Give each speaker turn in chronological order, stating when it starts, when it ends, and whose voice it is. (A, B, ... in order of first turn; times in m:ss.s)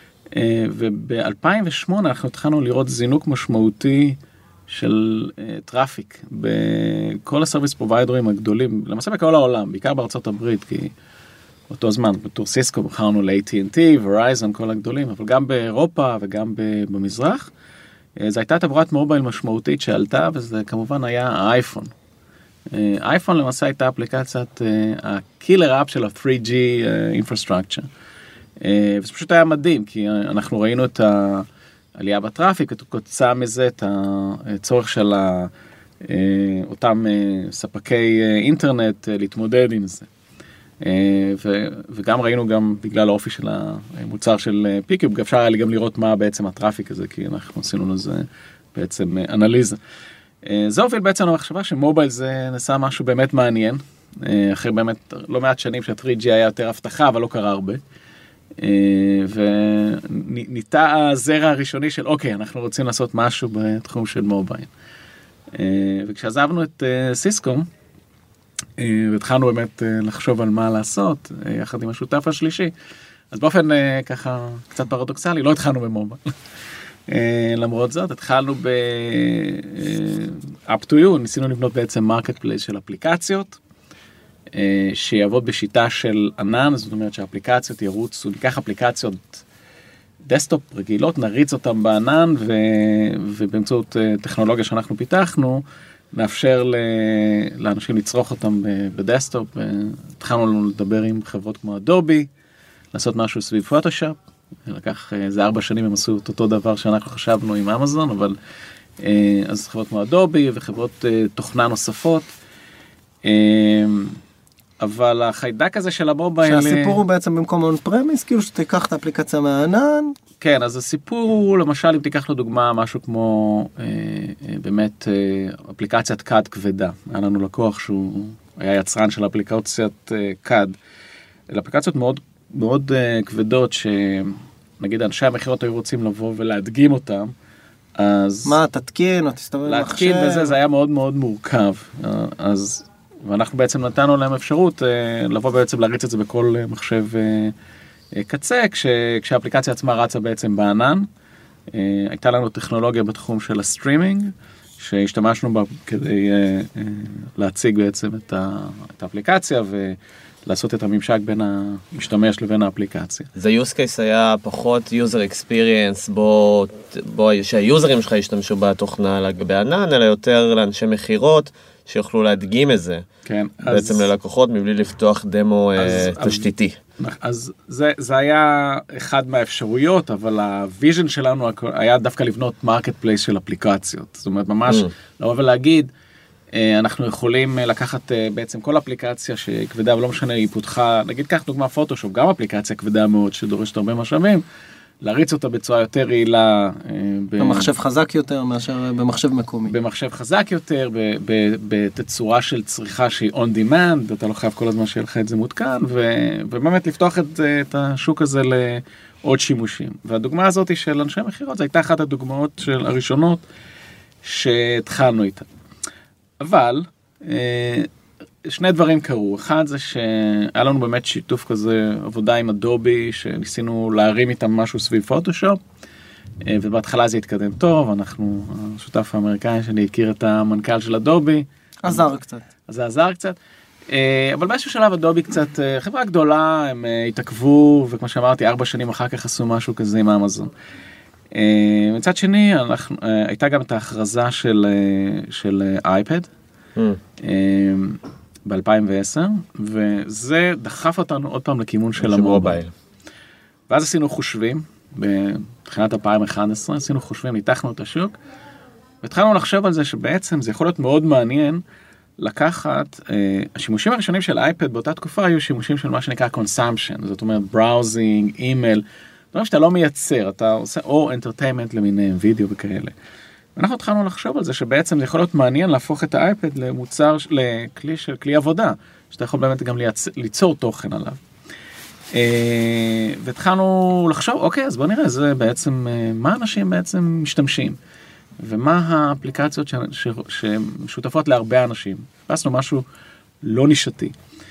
0:00.3-0:10.9 A
0:11.7-0:17.5 A
0:18.2-0:21.9 A
0:22.7-0:27.9 A
0:28.6-0:35.5 A
0:36.0-0:40.1 A
0:40.8-0:49.8 A
0:50.4-0:57.8 A
0:58.6-1:04.7 A
1:05.5-1:07.7 A
1:08.8-1:12.7 A
1:13.3-1:16.2 A
1:17.1-1:23.6 A
1:24.5-1:29.4 A
1:30.2-1:42.3 A
1:42.9-1:48.4 A
1:49.0-1:52.3 A
1:53.2-1:54.2 A
1:54.8-1:57.0 A
1:56.4-2:00.2 B
2:00.4-2:10.8 A
2:11.5-2:17.3 A
2:18.0-2:18.6 A
2:18.4-2:20.6 B
2:19.7-2:27.5 A
2:28.1-2:31.1 A
2:31.7-2:43.3 A
2:43.4-2:53.1 C
2:53.3-2:54.1 A
2:53.7-2:56.8 C
2:55.8-3:05.9 A
3:06.5-3:14.4 A
3:15.0-3:17.7 A
3:17.4-3:19.8 B
3:19.7-3:33.4 A
3:34.2-3:35.5 A
3:36.4-3:37.9 A
3:38.4-3:45.6 A
3:46.4-3:52.1 A
3:51.8-3:52.4 B
3:52.7-3:53.4 A
3:53.9-4:00.5 A
4:01.3-4:06.3 A
4:07.2-4:12.6 A
4:12.0-4:12.7 C
4:13.7-4:18.2 A
4:19.0-4:21.6 A
4:22.2-4:32.9 A
4:33.6-4:41.2 A
4:42.1-4:47.8 A
4:48.4-4:52.8 A
4:53.4-4:54.2 A